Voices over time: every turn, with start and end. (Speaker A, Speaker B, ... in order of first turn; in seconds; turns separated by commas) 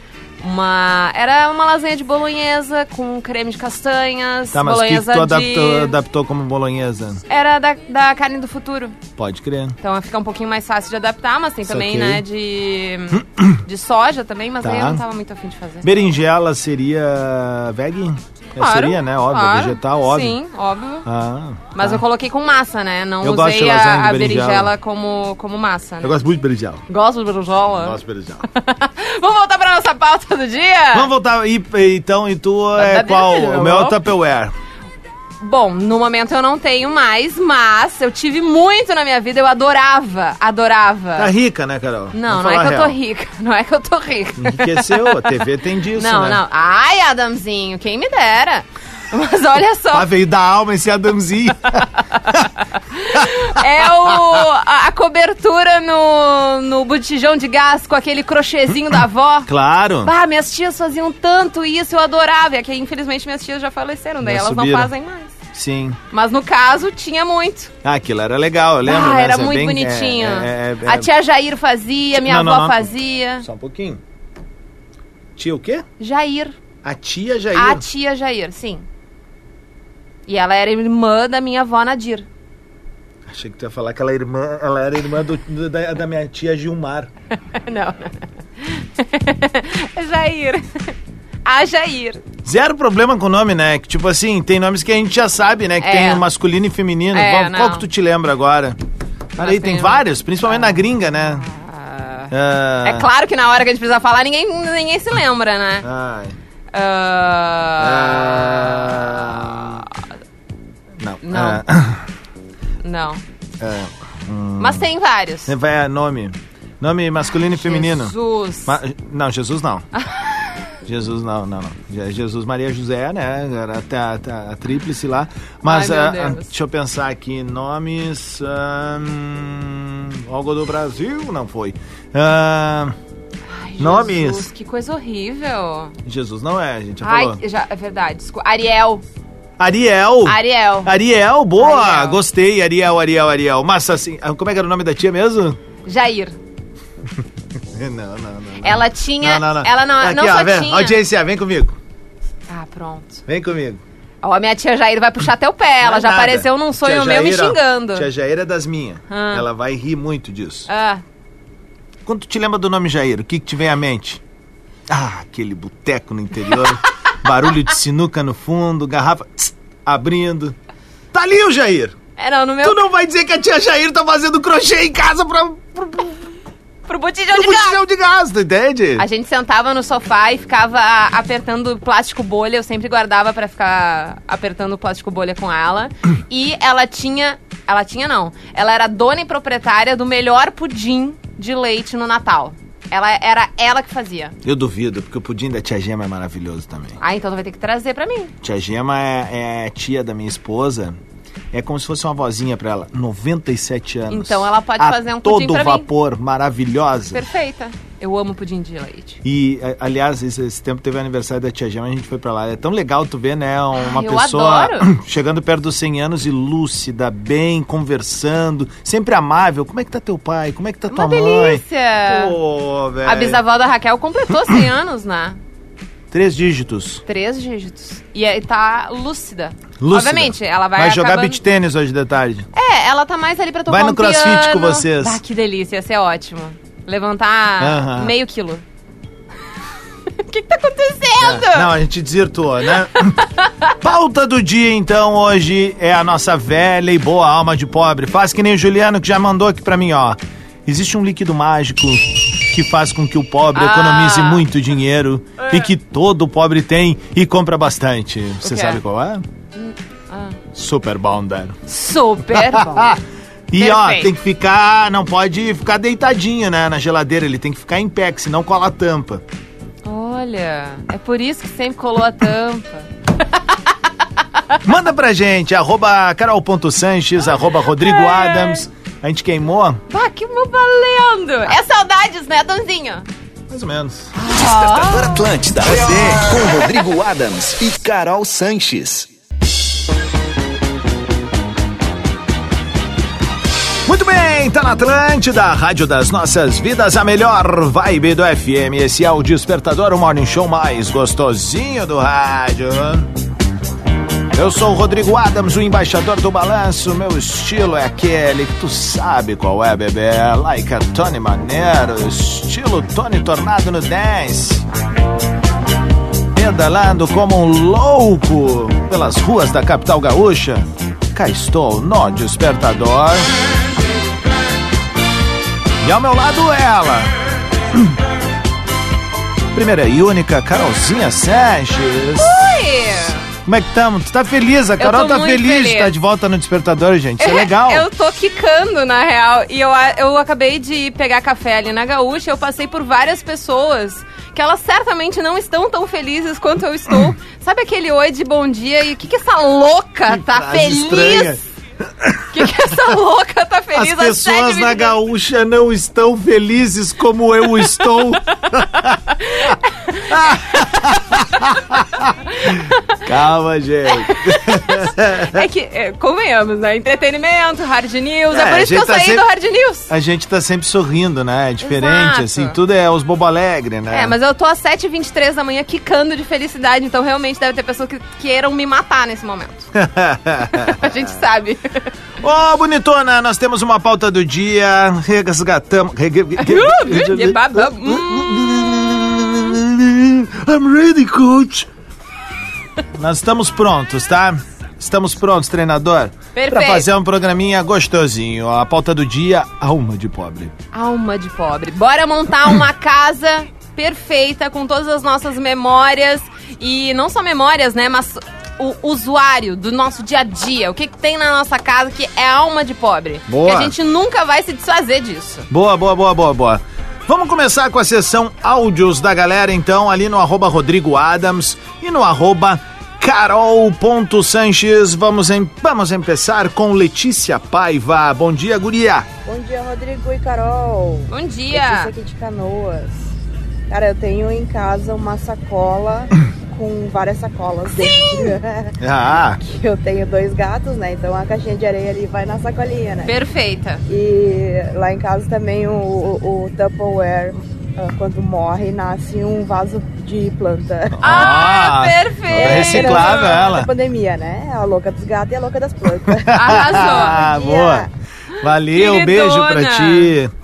Speaker A: 0.4-5.9, Speaker B: 4.5-7.2, Speaker A: 7.3-9.0, Speaker B: 9.2-9.8, Speaker A: 9.8-15.9, Speaker B: 11.7-12.2, Speaker B: 13.1-13.6, Speaker B: 14.6-15.0, Speaker B: 15.8-20.4, Speaker A: 18.6-21.1, Speaker B: 21.1-22.0, Speaker A: 21.8-26.1, Speaker B: 23.2-24.7, Speaker B: 26.0-26.8, Speaker A: 26.9-28.0, Speaker B: 27.8-28.4, Speaker A: 28.5-31.1, Speaker B: 30.9-34.5, Speaker A: 32.8-34.0, Speaker A: 35.4-41.3, Speaker B: 41.2-43.0, Speaker A: 42.1-45.2, Speaker B: 44.4-46.4, Speaker A: 46.0-50.1, Speaker B: 49.9-52.4, Speaker A: 52.4-59.5, Speaker B: 59.5-60.1, Speaker A: 60.0-65.3, Speaker B: 64.2-64.9, Speaker B: 65.5-66.0, Speaker A: 66.1-67.7, Speaker B: 67.8-71.1, Speaker A: 68.8-73.5, Speaker B: 72.1-74.0, Speaker B: 75.4-75.8, Speaker A: 76.0-76.5, Speaker B: 76.8-77.8, Speaker A: 77.5-78.9, Speaker A: 80.3-82.3, Speaker B: 83.3-87.1, Speaker A: 87.5-90.9, Speaker A: 91.5-92.2, Speaker B: 92.5-98.8, Speaker A: 95.8-96.2, Speaker A: 97.1-97.8, Speaker B: 99.4-101.5, Speaker A: 99.4-102.3, Speaker B: 102.3-103.1, Speaker A: 102.8-105.9, Speaker B: 105.8-106.4, Speaker A: 106.7-109.8, Speaker B: 107.8-109.8, Speaker B: 111.0-112.0, Speaker A: 111.2-111.6, Speaker A: 112.8-113.2, Speaker B: 113.6-114.9, Speaker A: 114.6-115.5, Speaker B: 115.5-118.1, Speaker A: 117.5-118.8, Speaker B: 118.7-119.9, Speaker A: 120.0-120.3, Speaker B: 120.8-132.9, Speaker A: 125.7-126.5, Speaker A: 133.5-135.9, Speaker B: 133.8-134.5, Speaker B: 136.1-137.4, Speaker A: 137.0-139.0, Speaker B: 139.6-145.6, Speaker A: 140.3-140.9, Speaker A: 141.6-142.2, Speaker A: 145.8-146.4, Speaker B: 147.7-151.8, Speaker A: 148.6-151.0, Speaker A: 152.5-153.2, Speaker B: 153.3-153.8, Speaker A: 154.2-158.1, Speaker B: 155.8-160.7, Speaker A: 159.1-159.4, Speaker A: 160.7-161.0, Speaker B: 162.1-164.2, Speaker B: 164.9-170.6, Speaker B: 171.1-171.9, Speaker A: 172.2-172.8, Speaker B: 172.6-176.3, Speaker A: 176.9-177.8, Speaker B: 177.3-179.1, Speaker A: 179.0-194.3, Speaker B: 194.4-197.0, Speaker A: 197.0-198.3, Speaker B: 198.4-201.0, Speaker B: 201.5-207.2, Speaker A: 204.1-205.9, Speaker A: 207.1-209.2, Speaker B: 209.2-223.4, Speaker A: 213.8-214.9, Speaker A: 220.9-222.3, Speaker A: 223.1-225.4, Speaker B: 226.1-227.0, Speaker A: 227.1-231.4, Speaker B: 229.8-232.5, Speaker A: 232.5-238.6, Speaker B: 233.7-235.2, Speaker B: 237.6-238.1, Speaker A: 240.3-241.7, Speaker B: 241.2-243.2, Speaker B: 243.8-259.2, Speaker A: 253.6-254.4, Speaker A: 255.4-255.7, Speaker A: 258.4-258.8, Speaker A: 259.6-260.4, Speaker B: 260.5-261.6, Speaker A: 261.7-262.9, Speaker B: 262.3-263.0, Speaker B: 263.5-269.2, Speaker A: 263.6-264.1, Speaker A: 269.9-273.6, Speaker B: 274.6-279.8, Speaker A: 277.7-278.6, Speaker A: 279.9-283.1, Speaker B: 283.5-284.1, Speaker A: 284.2-285.3, Speaker C: 284.3-289.1, Speaker B: 285.7-286.2, Speaker B: 293.9-303.1, Speaker B: 304.3-314.6, Speaker B: 316.4-323.3, Speaker B: 325.8-327.1, Speaker B: 329.5-332.3, Speaker A: 332.2-333.2, Speaker B: 333.5-337.9, Speaker A: 334.8-335.9, Speaker A: 337.2-351.4, Speaker B: 350.1-351.4, Speaker B: 352.0-352.5, Speaker A: 352.3-354.9, Speaker B: 353.7-358.9, Speaker A: 359.2-360.4, Speaker B: 360.1-362.1, Speaker B: 363.1-365.4, Speaker A: 364.1-369.9, Speaker B: 368.3-369.2, Speaker B: 369.9-374.1, Speaker A: 371.6-372.6, Speaker A: 373.9-379.7, Speaker B: 379.8-380.9, Speaker A: 380.7-381.9, Speaker B: 382.2-391.7, Speaker A: 386.4-388.5, Speaker B: 393.0-400.5, Speaker A: 396.4-396.9, Speaker A: 400.7-415.5, Speaker B: 413.3-413.7, Speaker B: 415.5-429.1, Speaker D: 429.2-433.0, Speaker A: 431.1-431.9, Speaker D: 433.7-438.8, Speaker A: 437.8-438.3, Speaker B: 438.8-439.4, Speaker D: 439.4-443.1, Speaker A: 443.1-443.8, Speaker D: 443.9-451.1, Speaker B: 451.0-453.7, Speaker A: 451.0-453.5, Speaker D: 452.3-457.9, Speaker B: 456.1-457.9, Speaker A: 456.3-457.2, Speaker B: 458.4-460.3, Speaker A: 458.7-460.1